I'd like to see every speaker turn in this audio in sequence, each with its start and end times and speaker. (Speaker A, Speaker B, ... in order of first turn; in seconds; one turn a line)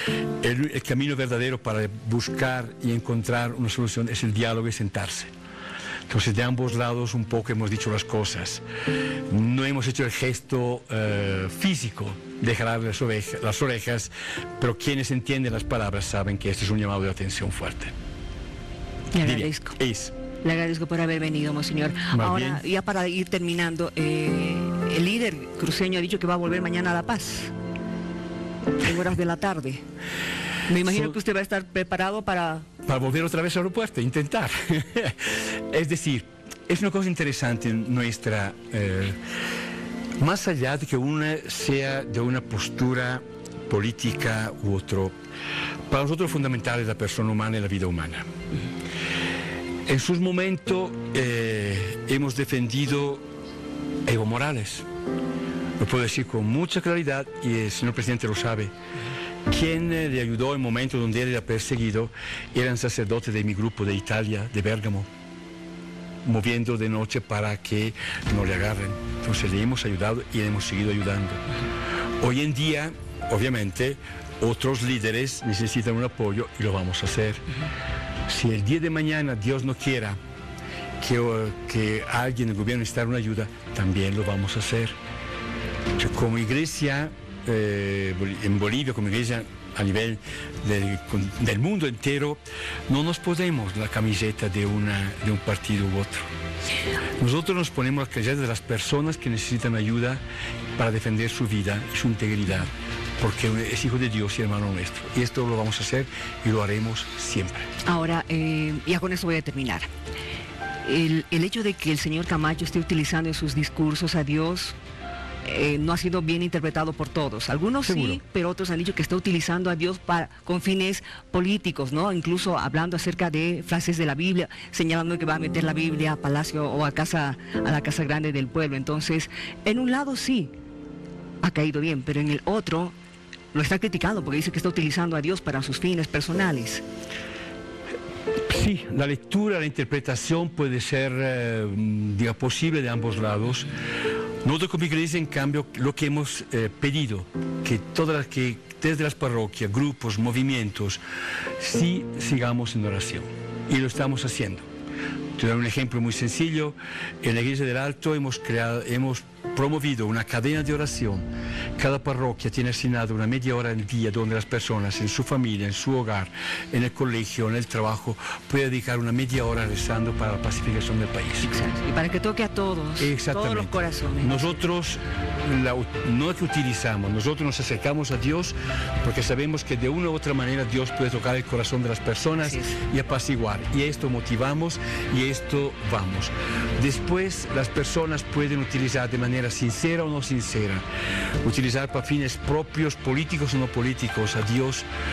Speaker A: 0.4-5.3
Speaker A: 6.1-8.6
Speaker A: 9.3-17.9
Speaker B: 19.1-19.8
Speaker A: 19.2-20.1
Speaker B: 20.4-27.5
Speaker A: 22.1-22.6
Speaker B: 28.8-29.8
Speaker B: 30.7-32.6
Speaker A: 30.8-31.1
Speaker A: 32.9-39.2
Speaker A: 40.2-45.1
Speaker A: 45.9-48.3
Speaker A: 49.9-53.2
Speaker A: 54.0-54.9
Speaker A: 55.8-58.7
Speaker A: 59.5-65.1
Speaker A: 66.2-71.4
Speaker A: 72.2-77.5
Speaker A: 78.3-80.2
Speaker A: 81.0-85.0
Speaker A: 86.0-96.3
Speaker A: 97.2-100.2
Speaker A: 100.8-107.7
Speaker B: 107.8-109.9
Speaker B: 110.8-114.7
Speaker B: 115.4-130.5
Speaker A: 117.8-118.2
Speaker B: 131.4-132.9
Speaker B: 133.5-136.8
Speaker A: 138.5-143.7
Speaker A: 144.4-151.0
Speaker A: 151.6-154.7
Speaker A: 155.3-161.2
Speaker A: 161.8-171.5
Speaker B: 171.4-174.6
Speaker A: 173.0-190.8
Speaker B: 182.4-182.8
Speaker A: 191.4-194.8